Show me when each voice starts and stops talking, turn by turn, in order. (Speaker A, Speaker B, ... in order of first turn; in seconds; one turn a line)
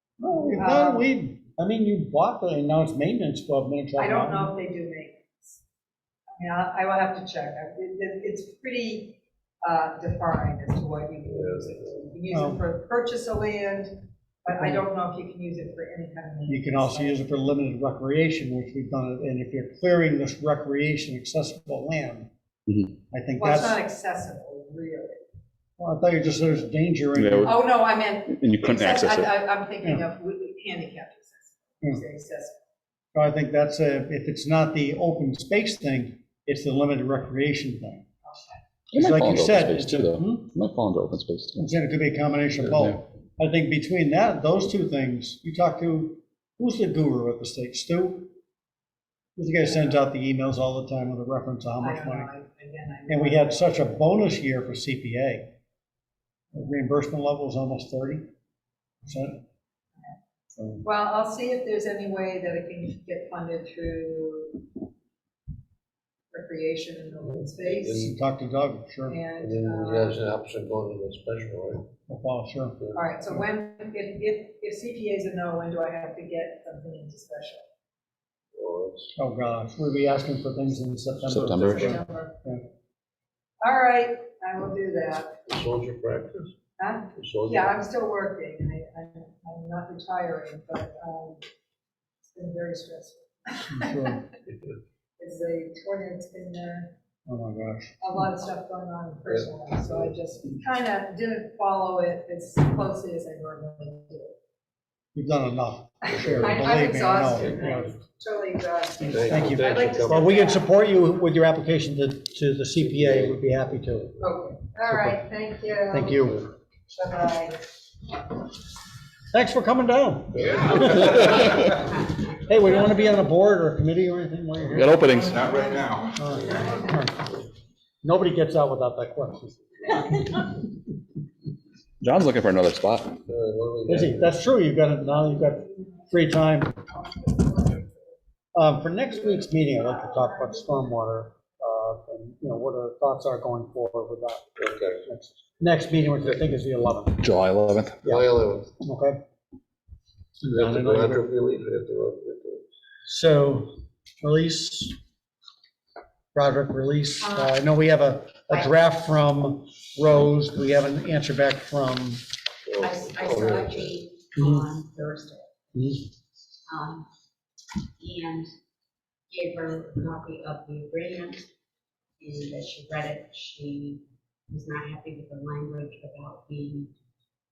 Speaker A: 0.2-4.5
Speaker B: 0.4-1.1
Speaker B: 4.0-5.6
Speaker B: 6.4-17.2
Speaker C: 11.3-12.0
Speaker A: 12.3-12.6
Speaker A: 14.5-14.8
Speaker A: 16.5-22.3
Speaker A: 23.1-23.8
Speaker B: 23.4-25.2
Speaker A: 25.8-27.5
Speaker D: 27.1-27.6
Speaker B: 27.4-32.6
Speaker D: 28.3-29.3
Speaker A: 33.1-38.0
Speaker B: 38.2-38.6
Speaker A: 38.9-40.5
Speaker D: 38.9-41.7
Speaker A: 41.5-48.3
Speaker D: 42.7-43.0
Speaker A: 49.4-52.3
Speaker B: 51.8-54.0
Speaker A: 53.1-55.5
Speaker A: 56.5-58.3
Speaker A: 59.0-59.4
Speaker A: 60.5-60.8
Speaker B: 60.8-64.7
Speaker B: 66.3-68.1
Speaker C: 67.2-68.1
Speaker A: 67.9-69.2
Speaker B: 69.1-70.2
Speaker C: 69.4-71.9
Speaker A: 72.1-72.8
Speaker B: 72.9-77.6
Speaker C: 78.5-79.1
Speaker A: 79.2-82.6
Speaker D: 81.3-82.0
Speaker B: 81.4-82.4
Speaker B: 83.6-85.4
Speaker C: 85.5-86.5
Speaker B: 86.8-91.4
Speaker C: 87.2-87.7
Speaker B: 92.3-94.2
Speaker A: 93.7-94.2
Speaker B: 95.2-96.9
Speaker A: 97.3-98.0
Speaker B: 98.0-104.3
Speaker C: 99.3-100.1
Speaker A: 105.1-107.9
Speaker B: 106.1-110.8
Speaker C: 106.2-106.6
Speaker C: 109.1-110.3
Speaker A: 109.1-114.1
Speaker C: 112.8-113.4
Speaker B: 114.2-116.2
Speaker A: 114.8-115.2
Speaker A: 115.9-116.5
Speaker B: 116.9-117.6
Speaker A: 119.3-121.7
Speaker C: 120.3-121.5
Speaker A: 122.4-125.4
Speaker D: 124.7-125.8
Speaker A: 126.1-127.3
Speaker A: 128.0-130.2
Speaker D: 132.0-133.2
Speaker C: 133.2-134.4
Speaker A: 133.9-136.8
Speaker B: 137.2-137.8
Speaker A: 138.5-144.5
Speaker C: 144.6-145.0
Speaker A: 145.1-147.2
Speaker D: 147.2-148.0
Speaker A: 148.0-149.2
Speaker C: 148.0-148.7
Speaker A: 150.4-151.2
Speaker C: 150.5-152.6
Speaker A: 153.1-154.9
Speaker A: 156.3-162.2
Speaker E: 157.2-157.6
Speaker C: 162.7-164.0
Speaker E: 162.8-165.5
Speaker A: 164.4-164.6
Speaker A: 165.7-166.0
Speaker E: 166.7-167.1
Speaker E: 168.0-168.5
Speaker E: 169.3-171.4
Speaker E: 172.2-176.9